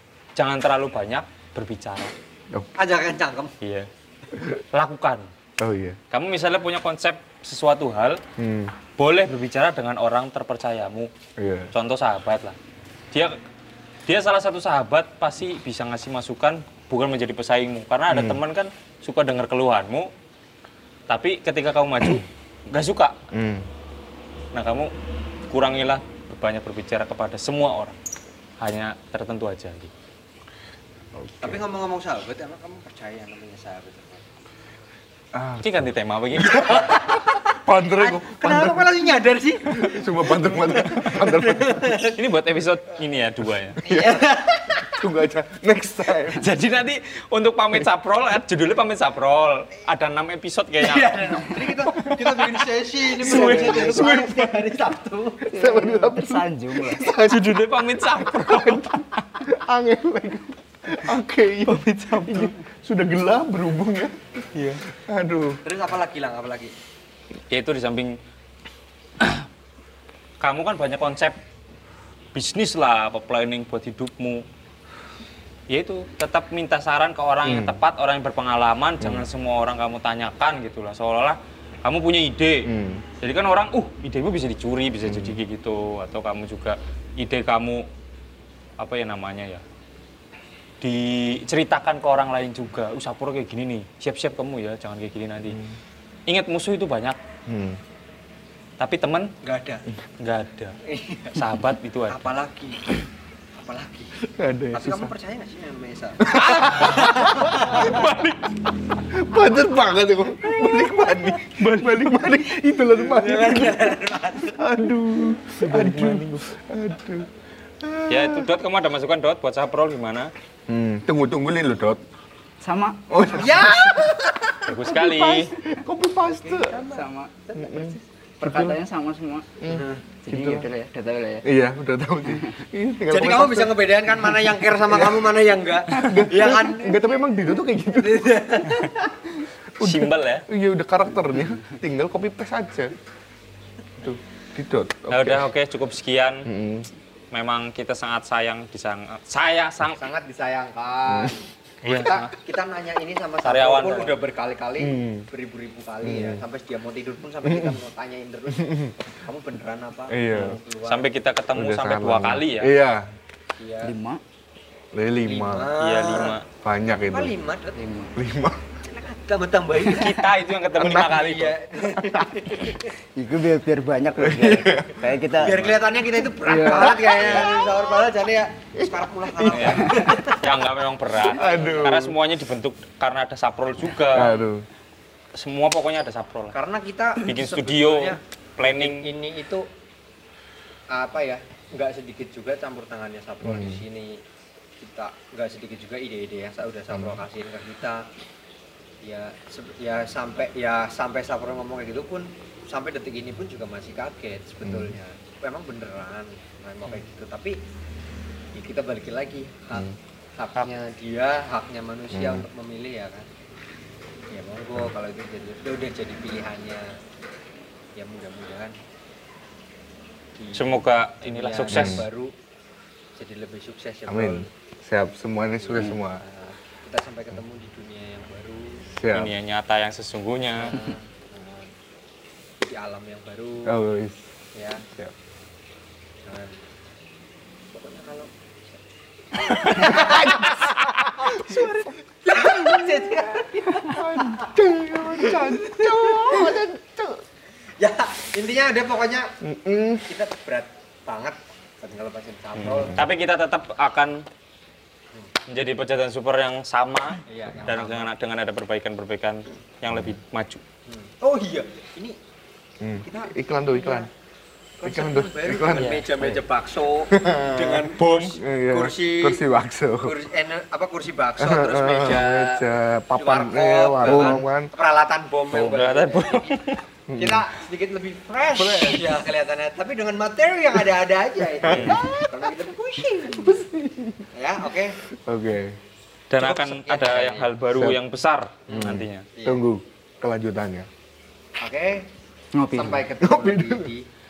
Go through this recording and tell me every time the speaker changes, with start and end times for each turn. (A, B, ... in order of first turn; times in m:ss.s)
0:00.4-0:02.1 A
0:02.8-0:03.5 B
0:03.6-0:03.9 A
0:04.7-0:05.3 A
0:05.6-0:06.0 C
0:06.1-0:08.2 A
0:08.4-0:08.8 C
0:09.0-0:11.1 A
0:11.4-0:11.7 C
0:11.7-0:12.6 A
0:13.1-0:13.4 A
0:14.1-0:20.1 A
0:18.1-0:18.4 C
0:21.1-0:23.2 A
0:23.3-0:23.7 C
0:24.5-0:24.9 A
0:25.5-0:28.0 A
0:28.6-0:29.9 A
0:31.1-0:31.6 C
0:31.4-0:34.3 B
0:35.3-0:35.8 C
0:35.6-0:37.0 A
0:36.3-0:39.1 C
0:36.9-0:42.2 B
0:39.7-0:41.9 C
0:42.0-0:43.8 A
0:43.8-0:44.8 B
0:43.9-0:46.5 C
0:46.3-0:54.8 A
0:50.8-0:55.6 B
0:53.2-0:54.2 D
0:55.5-1:05.6 C
0:55.5-0:57.1 D
0:57.2-0:59.3 A
1:01.7-1:02.2 A
1:02.0-1:02.5 D
1:04.5-1:04.8 A
1:05.6-1:06.7 B
1:07.5-1:08.2 A
1:09.2-1:09.5 A
1:10.4-1:11.4 A
1:12.3-1:14.4 A
1:15.7-1:27.9 A
1:17.4-1:17.8 C
1:19.0-1:19.3 C
1:22.7-1:23.0 C
1:25.0-1:25.4 C
1:28.8-1:29.6 A
1:30.8-1:35.6 A
1:35.5-1:35.8 C
1:36.3-1:37.2 A
1:37.5-1:37.8 C
1:38.8-1:39.4 A
1:39.4-1:39.8 B
1:40.2-1:40.8 A
1:40.8-1:41.4 B
1:41.4-1:42.3 A
1:42.1-1:42.9 B
1:43.6-1:44.1 B
1:44.2-1:45.1 C
1:44.7-1:48.0 B
1:46.2-1:48.2 C
1:46.3-1:48.5 A
1:49.1-1:54.0 C
1:50.5-1:51.6 B
1:52.7-1:54.6 B
1:54.5-1:57.3 C
1:55.6-1:56.4 A
1:57.8-1:58.5 C
1:58.1-2:00.3 A
2:00.7-2:02.0 C
2:02.6-2:03.8 D
2:03.1-2:04.3 C
2:03.3-2:04.7 B
2:04.7-2:05.5 A
2:04.9-2:05.5 D
2:05.6-2:06.9 C
2:06.4-2:09.5 D
2:06.6-2:07.0 B
2:07.6-2:08.8 C
2:09.6-2:10.7 C
2:09.7-2:10.0 B
2:10.2-2:11.5 D
2:11.4-2:15.3 C
2:13.1-2:17.1 B
2:15.9-2:18.4 C
2:17.9-2:19.2 B
2:19.8-2:23.0 C
2:19.8-2:20.5 A
2:24.0-2:25.5 C
2:25.1-2:26.5 A
2:26.4-2:26.9 C
2:27.3-2:30.0 A
2:29.9-2:41.1 B
2:31.1-2:31.3 C
2:31.8-2:32.3 A
2:33.4-2:34.2 A
2:34.8-2:35.3 C
2:36.0-2:36.4 C
2:37.4-2:37.8 C
2:38.5-2:39.0 C
2:40.1-2:40.6 C
2:40.8-2:42.7 A
2:41.5-2:43.1 C
2:43.6-2:43.9 B
2:43.8-2:44.2 D
2:44.9-2:45.8 C
2:45.3-2:46.4 B
2:45.8-2:46.4 A
2:46.6-2:47.3 C
2:47.1-2:47.8 B
2:47.7-2:48.1 D
2:48.2-2:48.6 C
2:48.8-2:52.9 B
2:49.8-2:51.6 A
2:53.2-2:55.8 D
2:54.2-2:55.0 C
2:55.4-3:00.5 B
2:56.4-2:57.8 C
2:56.5-2:57.0 D
2:59.4-3:00.0 C
2:59.5-3:04.4 A
3:01.3-3:01.9 B
3:01.3-3:02.2 C
3:04.1-3:04.7 C
3:05.3-3:06.5 A
3:06.5-3:09.7 B
3:07.2-3:09.1 A
3:10.9-3:14.2 B
3:13.4-3:13.8 C
3:14.8-3:18.1 B
3:16.9-3:17.2 C
3:19.0-3:27.6 B
3:24.6-3:25.0 C
3:28.6-3:33.3 B
3:32.1-3:32.5 C
3:34.3-3:36.9 B
3:38.0-3:38.8 B
3:40.4-3:42.4 B
3:40.5-3:42.0 A
3:41.7-3:42.1 C
3:43.2-3:44.5 B
3:44.1-3:46.2 C
3:45.6-3:48.9 B
3:48.9-3:49.4 C
3:49.1-3:50.8 A
3:50.6-3:51.7 B
3:52.6-3:53.7 B
3:53.7-3:54.2 C
3:54.6-3:54.9 B
3:56.2-3:56.6 B
3:57.7-3:58.8 B
3:59.3-4:06.6 B
3:59.6-4:00.7 C
4:01.3-4:07.2 C
4:07.8-4:09.4 B
4:09.4-4:10.1 C
4:10.1-4:13.0 B
4:12.6-4:13.1 C
4:12.9-4:14.2 A
4:15.5-4:20.6 A
4:17.3-4:18.1 B
4:20.9-4:22.2 B
4:22.8-4:24.1 C
4:23.0-4:24.1 B
4:24.8-4:29.4 B
4:24.8-4:26.0 C
4:25.8-4:26.3 A
4:27.1-4:30.2 C
4:28.0-4:28.4 A
4:30.0-4:43.6 B
4:31.4-4:34.7 C
4:34.0-4:34.4 A
4:35.5-4:36.8 A
4:37.1-4:37.5 C
4:38.6-4:39.2 C
4:41.6-4:42.5 C
4:41.7-4:42.0 A
4:43.2-4:44.3 C
4:44.3-4:45.0 B
4:45.1-4:45.8 C
4:46.3-4:49.3 A
4:46.4-4:47.5 B
4:47.7-4:48.0 C
4:48.7-4:49.6 B
4:48.7-4:50.9 C
4:51.6-4:52.1 B
4:52.5-4:53.0 D
4:52.7-4:54.1 B
4:53.2-4:53.9 C